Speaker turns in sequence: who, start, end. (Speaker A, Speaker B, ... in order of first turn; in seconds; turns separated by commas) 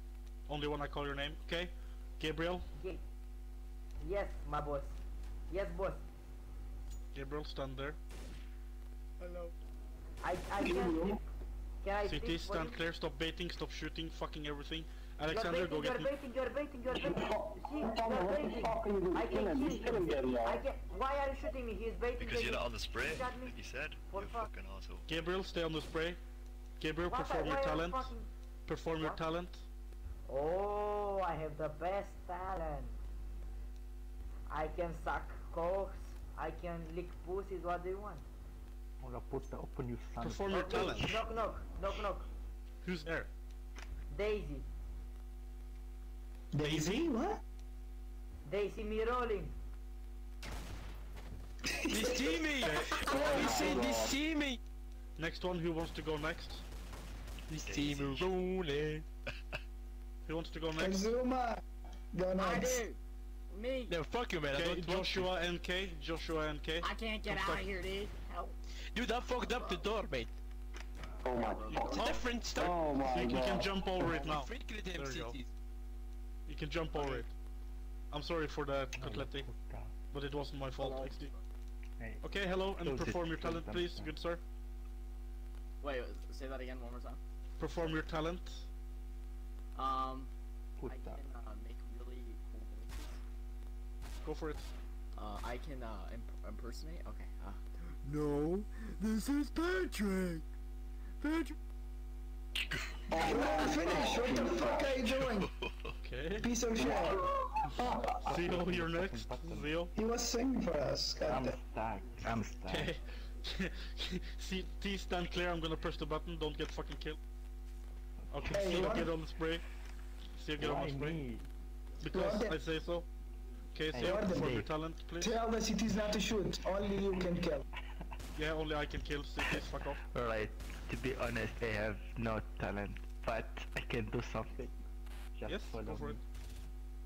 Speaker A: 0.5-2.6, Speaker B: 4.0-5.0, Speaker B: 5.5-6.0, Speaker A: 7.1-8.0, Speaker B: 10.2-11.2, Speaker C: 10.6-11.2, Speaker B: 11.8-12.8, Speaker A: 12.0-16.1, Speaker B: 15.3-24.5, Speaker C: 17.0-20.6, Speaker D: 22.2-25.1, Speaker A: 25.1-26.2, Speaker A: 26.8-28.1, Speaker B: 27.1-28.3, Speaker A: 28.7-29.6, Speaker B: 29.0-29.2, Speaker B: 30.3-32.9, Speaker B: 34.5-38.2, Speaker E: 39.0-41.2, Speaker A: 40.2-41.2, Speaker B: 40.6-42.3, Speaker A: 42.8-43.3, Speaker B: 44.1-44.6, Speaker F: 46.5-47.4, Speaker A: 46.6-47.1, Speaker B: 48.5-49.5, Speaker F: 51.7-52.3, Speaker G: 51.9-54.6, Speaker A: 52.6-53.2, Speaker F: 53.1-53.8, Speaker C: 53.4-54.1, Speaker A: 55.2-56.6, Speaker D: 57.5-58.3, Speaker G: 57.5-59.0, Speaker A: 60.2-61.1, Speaker F: 60.7-61.6, Speaker F: 62.1-62.9, Speaker H: 62.4-63.0, Speaker H: 63.5-63.9, Speaker G: 63.9-65.3, Speaker A: 64.5-67.7, Speaker H: 66.9-68.5, Speaker G: 68.9-70.3, Speaker C: 71.2-72.0, Speaker H: 71.3-72.2, Speaker A: 71.7-72.2, Speaker G: 71.8-72.8, Speaker C: 72.6-73.7, Speaker H: 72.9-73.1, Speaker A: 73.1-75.4, Speaker G: 74.0-75.5, Speaker A: 76.5-77.3, Speaker G: 76.9-77.2, Speaker A: 78.1-79.5, Speaker E: 79.0-79.9, Speaker A: 80.1-81.3, Speaker H: 80.8-81.4, Speaker E: 82.0-82.2, Speaker A: 82.2-84.4, Speaker E: 82.8-84.2, Speaker H: 85.8-87.2, Speaker A: 87.6-88.7, Speaker H: 89.8-90.3, Speaker E: 90.8-91.2, Speaker H: 90.8-93.2, Speaker A: 94.2-94.7, Speaker H: 95.1-98.0, Speaker D: 102.7-103.3, Speaker F: 103.1-105.5, Speaker C: 103.3-104.7, Speaker D: 104.0-106.0, Speaker A: 106.0-106.5, Speaker F: 106.4-108.4, Speaker C: 106.8-107.2, Speaker E: 108.3-109.8, Speaker A: 108.3-109.9, Speaker F: 109.9-111.6, Speaker E: 111.2-113.0, Speaker A: 112.7-117.2, Speaker A: 118.3-119.6, Speaker F: 118.4-119.2, Speaker A: 120.4-121.2, Speaker E: 120.6-121.5, Speaker A: 122.0-123.1, Speaker F: 122.1-122.6, Speaker A: 123.7-125.4, Speaker F: 124.0-124.6, Speaker F: 125.2-127.6, Speaker A: 128.3-130.0, Speaker E: 130.1-134.8, Speaker E: 135.3-136.2, Speaker A: 135.5-136.2